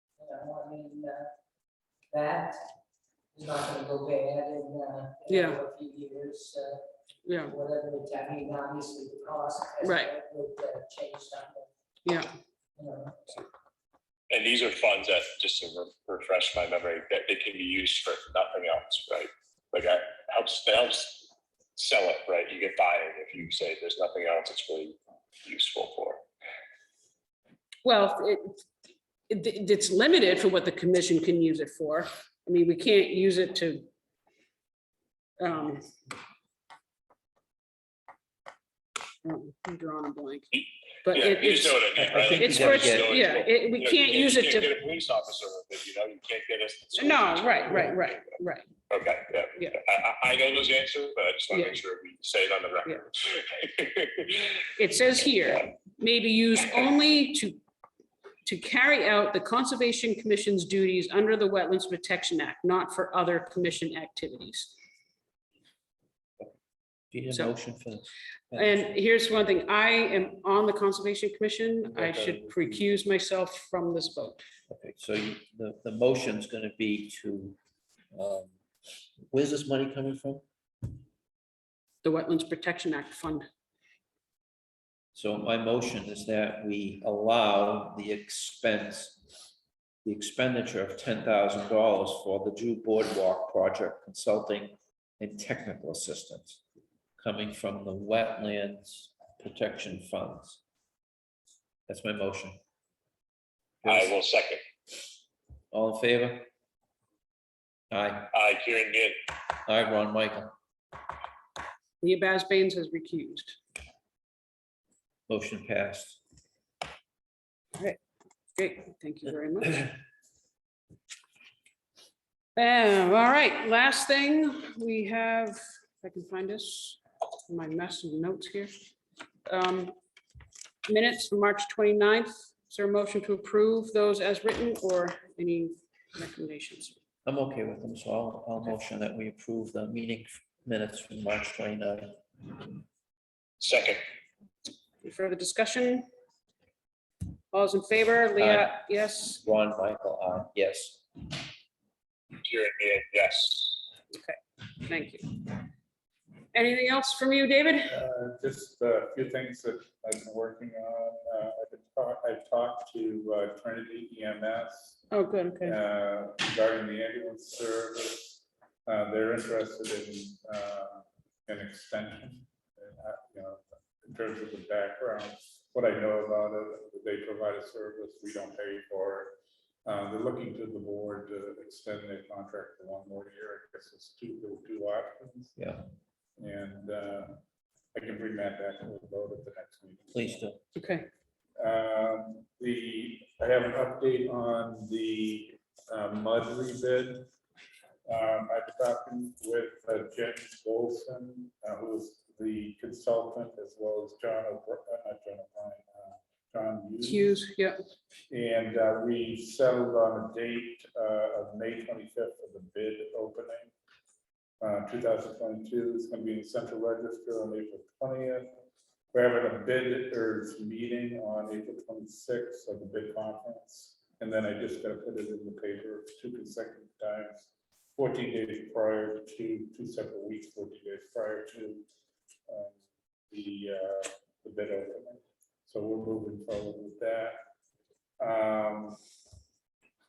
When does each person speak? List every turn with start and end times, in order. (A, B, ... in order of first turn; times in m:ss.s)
0:00.2-0:01.3 A
0:02.1-0:02.6 A
0:03.3-0:06.8 A
0:05.3-0:05.6 B
0:07.2-0:07.6 B
0:07.4-0:11.7 A
0:09.8-0:10.1 B
0:12.8-0:13.5 A
0:14.3-0:26.2 C
0:27.8-0:28.6 B
0:29.3-0:33.9 B
0:35.4-0:35.9 B
0:39.2-0:44.8 B
0:40.5-0:48.3 C
0:42.0-0:43.1 D
0:47.0-0:48.7 B
0:48.9-0:54.5 C
0:51.5-0:51.8 B
0:54.8-0:57.6 B
0:58.4-1:04.7 B
1:07.1-1:08.8 D
1:08.5-1:14.4 B
1:11.9-1:12.9 E
1:14.7-1:17.6 D
1:18.1-1:18.6 D
1:19.3-1:20.4 D
1:22.0-1:23.4 B
1:25.1-1:29.3 D
1:30.0-1:36.6 D
1:37.2-1:40.6 D
1:41.9-1:42.6 D
1:43.8-1:44.6 C
1:43.8-1:44.1 D
1:45.7-1:46.5 D
1:47.9-1:48.3 D
1:48.3-1:49.2 C
1:49.6-1:50.5 D
1:52.0-1:53.6 B
1:55.3-1:56.2 D
1:58.5-1:59.9 B
2:02.6-2:08.8 B
2:09.4-2:09.9 B
2:10.9-2:17.0 B
2:17.2-2:22.7 D
2:23.6-2:24.0 C
2:25.0-2:26.1 B
2:27.5-2:29.4 B
2:28.4-2:28.8 D
2:29.3-2:31.3 D
2:32.4-2:33.8 C
2:34.1-2:35.7 B
2:36.5-2:38.0 B
2:37.9-2:45.1 E
2:45.1-2:45.8 B
2:45.6-2:59.3 E
2:59.8-3:05.6 E
3:05.6-3:05.8 D
3:06.4-3:07.4 E
3:07.9-3:10.4 E
3:10.1-3:10.6 D
3:10.8-3:11.1 B
3:11.6-3:17.3 E
3:18.0-3:27.4 E
3:27.0-3:27.8 B
3:28.3-3:33.7 E
3:34.6-3:38.5 E
3:39.1-3:51.8 E
3:52.5-3:52.8 E
3:53.3-3:57.4 E
3:58.2-3:59.0 E